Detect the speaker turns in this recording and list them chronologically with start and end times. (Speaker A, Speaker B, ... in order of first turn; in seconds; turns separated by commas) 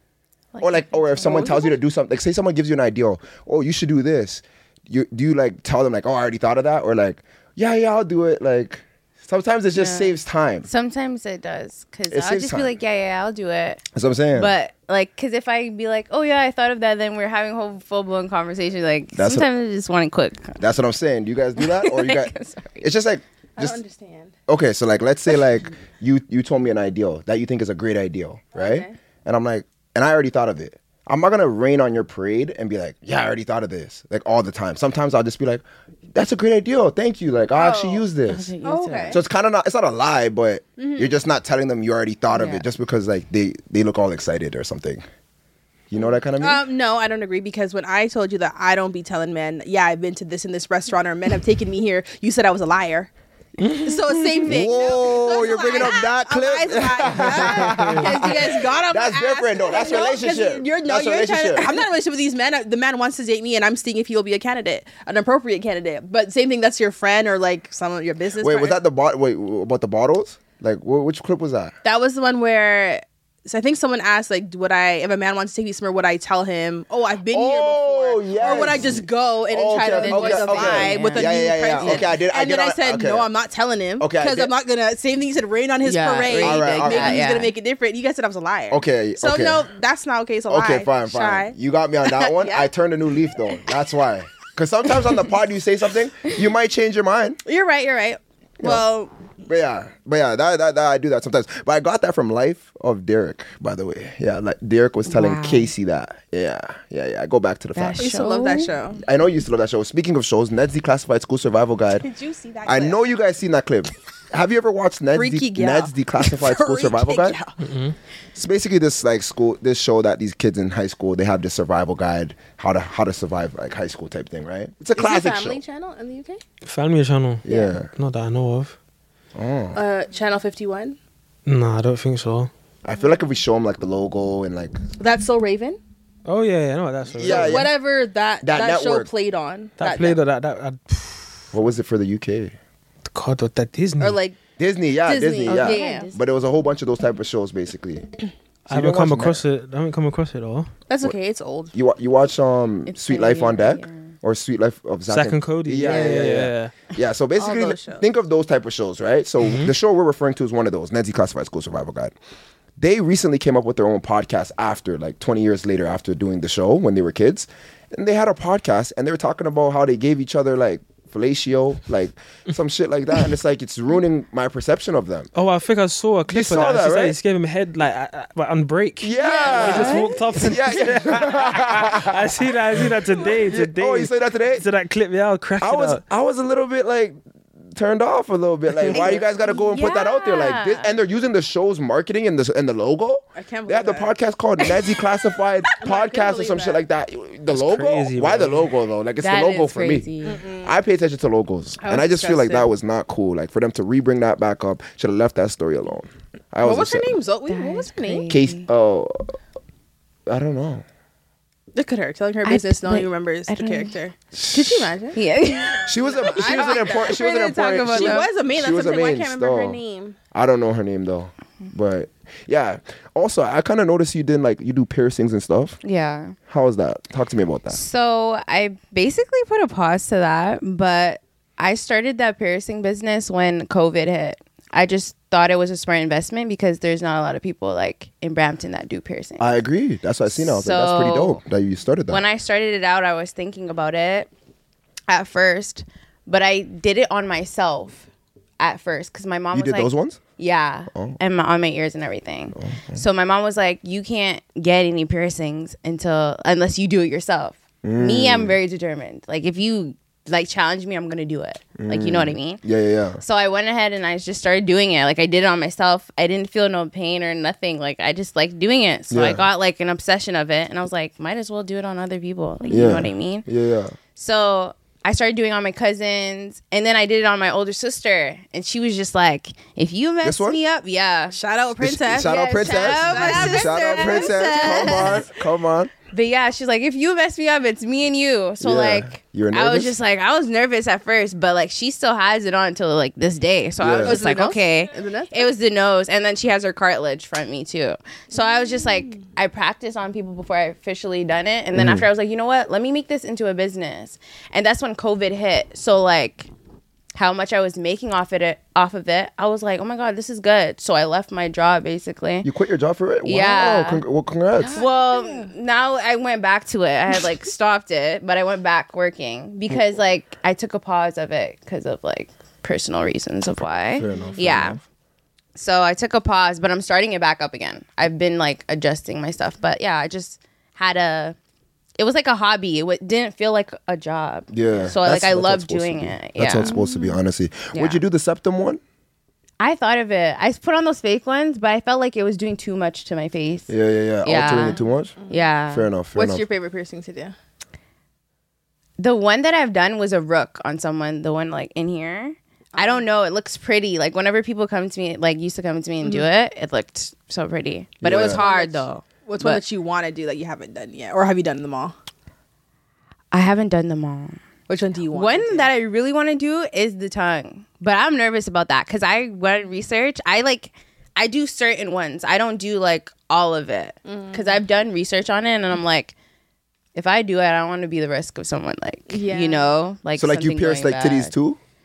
Speaker A: 0.5-1.8, Speaker B: 0.6-10.7, Speaker A: 9.8-20.6, Speaker B: 12.1-12.7, Speaker B: 13.9-14.5, Speaker B: 19.1-19.5, Speaker B: 20.6-23.8, Speaker A: 21.6-22.8, Speaker C: 23.6-24.3, Speaker B: 24.5-35.6, Speaker C: 28.5-29.0, Speaker B: 36.1-38.5, Speaker C: 37.5-38.0, Speaker A: 38.3-39.2, Speaker C: 38.6-39.2, Speaker B: 39.1-45.0, Speaker C: 40.8-41.1, Speaker A: 42.3-42.7, Speaker B: 45.9-46.6, Speaker C: 46.4-53.1, Speaker D: 53.6-53.9, Speaker C: 53.8-68.8, Speaker B: 54.5-61.8, Speaker D: 57.4-58.1, Speaker B: 68.4-71.8, Speaker C: 71.8-92.7, Speaker B: 77.3-83.3, Speaker A: 78.4-78.8, Speaker A: 79.8-82.1, Speaker B: 84.0-84.5, Speaker A: 85.8-87.5, Speaker B: 86.4-87.2, Speaker B: 88.7-89.7, Speaker B: 90.5-97.4, Speaker C: 97.5-99.1, Speaker B: 99.5-108.2, Speaker A: 105.1-105.7, Speaker A: 107.8-108.7, Speaker C: 108.0-109.0, Speaker B: 109.0-112.1, Speaker C: 112.0-113.1, Speaker B: 112.7-117.4, Speaker C: 115.1-117.6, Speaker D: 117.6-118.0, Speaker B: 118.3-125.6, Speaker C: 125.0-126.4, Speaker D: 126.7-128.8, Speaker B: 127.4-127.9, Speaker C: 127.5-127.8, Speaker B: 129.3-129.8, Speaker C: 129.8-131.0, Speaker D: 131.5-132.5, Speaker B: 132.8-134.8, Speaker C: 135.0-135.8, Speaker D: 136.3-137.7, Speaker B: 137.2-137.7, Speaker C: 137.2-140.2, Speaker B: 138.4-139.1, Speaker D: 139.8-141.5, Speaker B: 141.5-142.6, Speaker D: 143.1-144.2, Speaker C: 144.0-144.4, Speaker B: 144.6-148.1, Speaker C: 145.1-146.1, Speaker A: 145.4-146.2, Speaker D: 148.7-150.7, Speaker B: 148.7-149.4, Speaker C: 150.9-151.7, Speaker B: 151.7-162.1, Speaker A: 152.9-154.1, Speaker D: 155.1-156.7, Speaker C: 155.9-156.2, Speaker C: 157.4-158.1, Speaker D: 159.4-159.7, Speaker B: 162.8-175.3, Speaker D: 175.3-186.0, Speaker B: 176.3-177.2, Speaker B: 179.0-182.3, Speaker A: 179.2-180.4, Speaker C: 179.5-180.0, Speaker B: 183.4-184.6, Speaker B: 185.6-187.2, Speaker B: 187.8-200.1, Speaker C: 188.9-189.2, Speaker A: 188.9-190.9, Speaker C: 193.4-195.0, Speaker C: 195.8-196.8, Speaker D: 197.5-198.7, Speaker A: 199.2-200.4, Speaker C: 200.2-200.7, Speaker B: 200.6-207.1, Speaker C: 201.8-202.7, Speaker C: 206.6-208.3, Speaker A: 207.5-208.7, Speaker B: 208.3-209.4, Speaker B: 210.3-210.8, Speaker C: 211.7-215.2, Speaker A: 212.4-213.9, Speaker B: 214.3-214.9, Speaker A: 215.2-218.3, Speaker C: 215.8-220.2, Speaker B: 215.8-219.8, Speaker B: 220.3-225.8, Speaker A: 225.8-226.4, Speaker B: 226.5-227.8, Speaker A: 227.7-239.5, Speaker B: 239.4-242.2, Speaker A: 240.3-241.4, Speaker A: 242.1-244.3, Speaker A: 245.1-248.0, Speaker A: 248.6-262.6, Speaker B: 249.5-250.2, Speaker B: 250.9-251.2, Speaker B: 252.6-253.0, Speaker B: 257.8-258.6, Speaker B: 261.8-263.2, Speaker A: 263.2-273.5, Speaker B: 269.1-269.5, Speaker B: 272.7-274.0, Speaker A: 274.1-281.4, Speaker B: 280.2-280.6, Speaker C: 281.3-285.2, Speaker B: 281.8-285.9, Speaker A: 282.2-285.3, Speaker A: 286.1-306.5, Speaker B: 288.6-290.0, Speaker B: 293.8-294.2, Speaker C: 294.0-295.5, Speaker C: 298.4-299.2, Speaker B: 301.8-302.1, Speaker A: 307.1-312.5, Speaker B: 312.4-314.8, Speaker A: 313.2-314.0, Speaker C: 314.6-315.5, Speaker A: 314.7-324.8, Speaker B: 324.0-324.8, Speaker A: 325.6-331.4, Speaker A: 332.0-336.9, Speaker B: 334.5-338.8, Speaker C: 336.6-337.1, Speaker A: 337.7-338.0, Speaker A: 339.6-343.7, Speaker B: 343.7-345.1, Speaker A: 344.2-345.9, Speaker C: 345.2-345.5, Speaker B: 345.7-346.4, Speaker C: 346.1-347.4, Speaker A: 349.0-359.6, Speaker C: 352.8-353.0, Speaker C: 356.0-356.3, Speaker B: 358.0-358.4, Speaker C: 358.1-361.9, Speaker A: 363.3-364.4, Speaker C: 364.7-365.7, Speaker A: 365.1-376.1, Speaker C: 374.1-374.6, Speaker A: 376.9-381.3, Speaker C: 379.1-379.7, Speaker B: 380.2-381.6